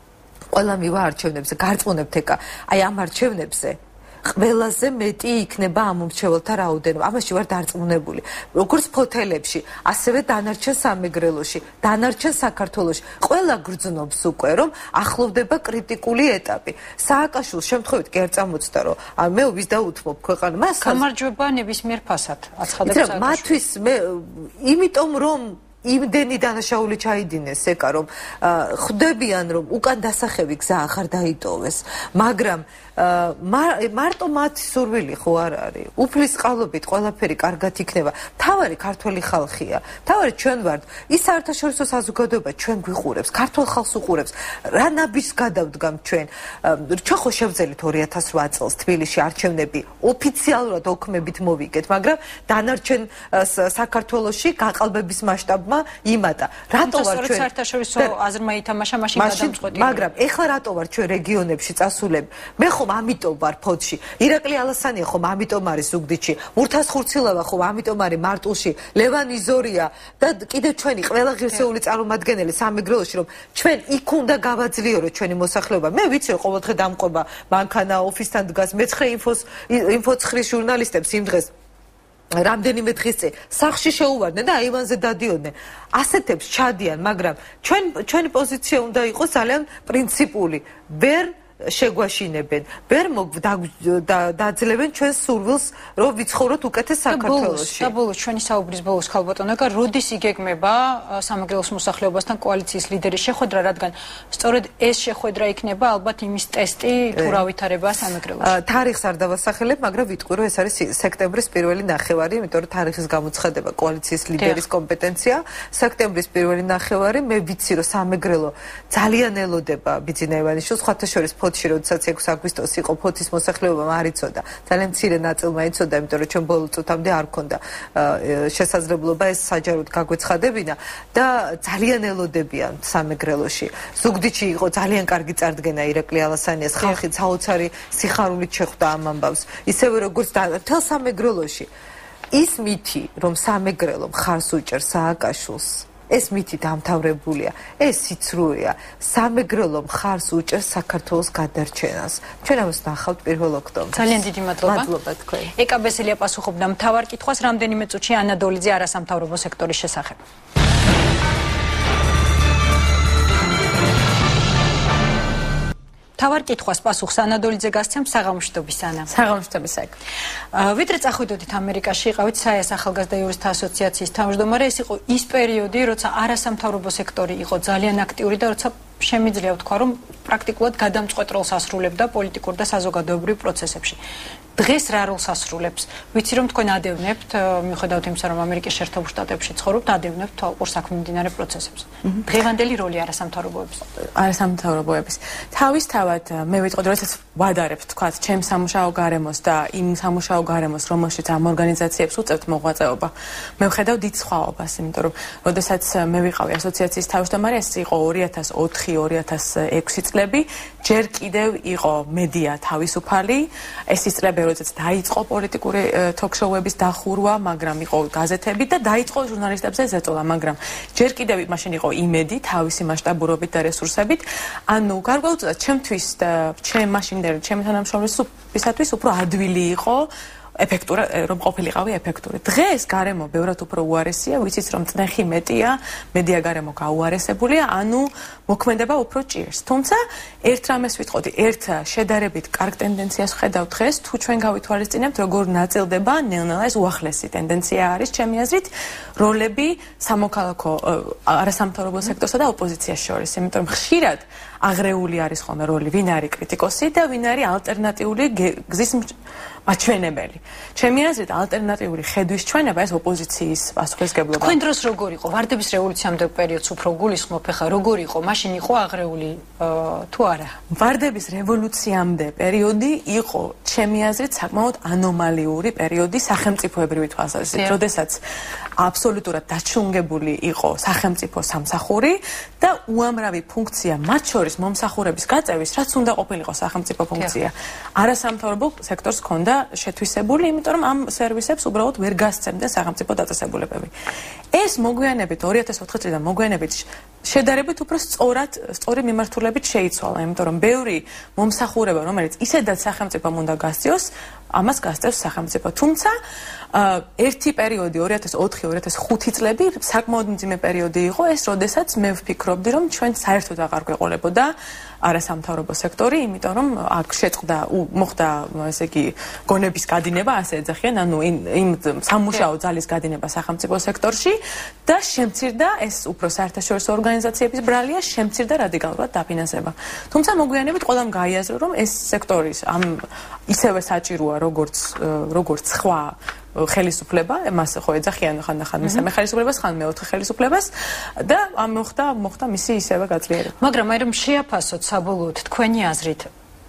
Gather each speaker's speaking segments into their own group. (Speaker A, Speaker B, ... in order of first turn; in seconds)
Speaker A: 0.5-21.0, 22.8-58.1, 59.1-81.5, 82.3-97.9, 107.1-107.4, 108.4-141.7, 142.3-155.5
Speaker B: 20.8-23.6, 56.8-60.1, 97.1-108.5, 153.9-154.9, 155.5-160.2, 166.2-169.1, 170.5-184.0, 184.6-193.8, 264.4-270.6, 343.6-346.3
Speaker C: 169.1-169.9, 194.1-259.1, 259.6-264.6, 270.7-278.2, 278.8-293.9, 294.5-306.1, 306.7-343.5